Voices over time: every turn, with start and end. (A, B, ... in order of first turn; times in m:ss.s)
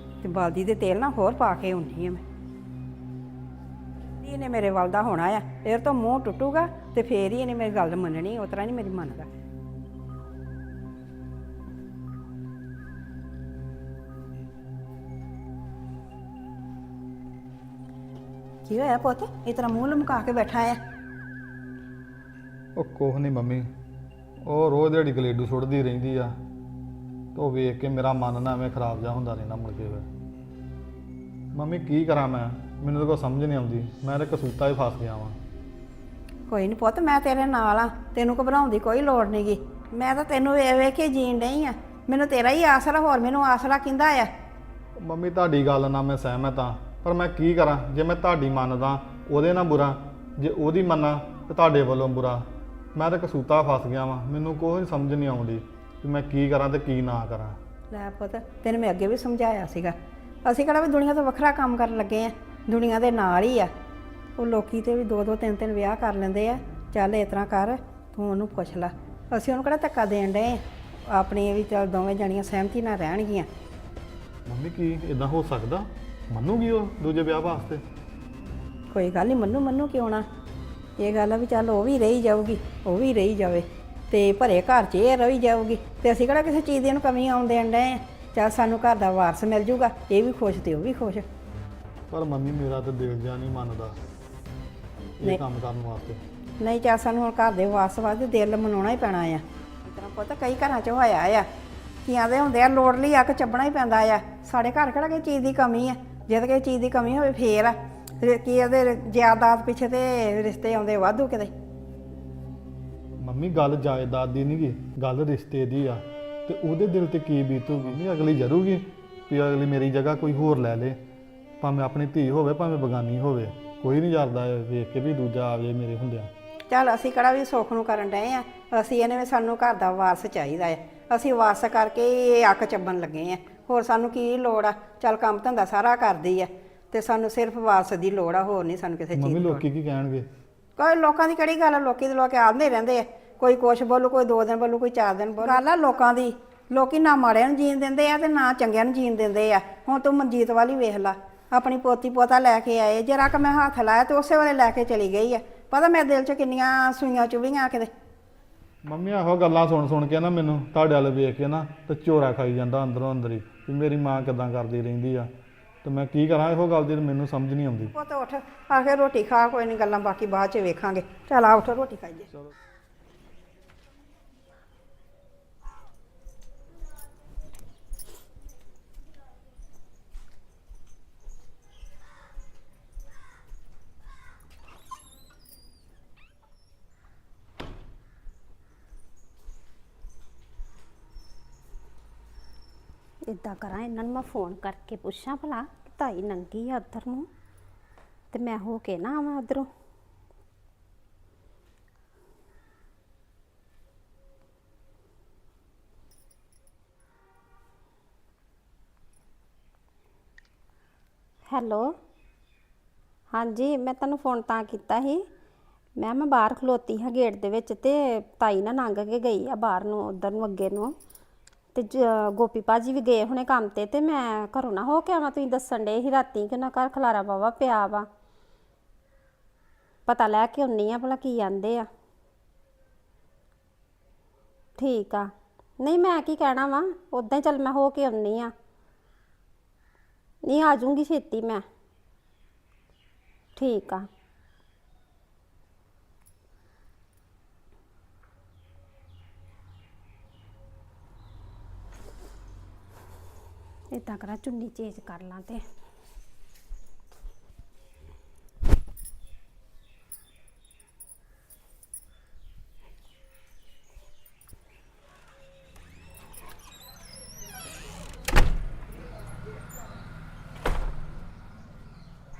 0:00.2-0:02.2 A
0:04.2-0:09.3 A
0:18.6-0:20.8 A
0:22.7-0:23.7 B
0:24.4-0:26.4 B
0:27.3-0:30.1 B
0:31.5-0:35.4 B
0:36.5-0:44.3 A
0:45.0-0:52.4 B
0:52.9-0:57.6 B
0:57.9-1:03.7 A
1:04.4-1:13.5 A
1:14.5-1:17.8 B
1:18.9-1:20.3 A
1:21.0-1:31.2 A
1:32.1-1:34.0 B
1:35.2-1:36.2 B
1:36.6-1:41.5 A
1:42.0-1:51.5 A
1:53.2-2:01.0 B
2:01.6-2:06.3 B
2:06.7-2:19.6 A
2:19.2-2:20.3 B
2:20.8-2:37.9 A
2:38.8-2:45.3 B
2:45.8-2:47.9 B
2:47.9-2:52.3 A
3:13.3-3:17.3 C
3:18.3-3:19.7 C
3:31.5-3:31.9 C
3:33.3-3:35.2 C
3:36.0-3:40.9 C
3:41.7-3:48.1 C
3:50.1-3:51.9 C
3:54.8-3:58.5 C
4:00.4-4:01.6 C
4:03.6-4:04.1 C
4:13.9-4:15.6 C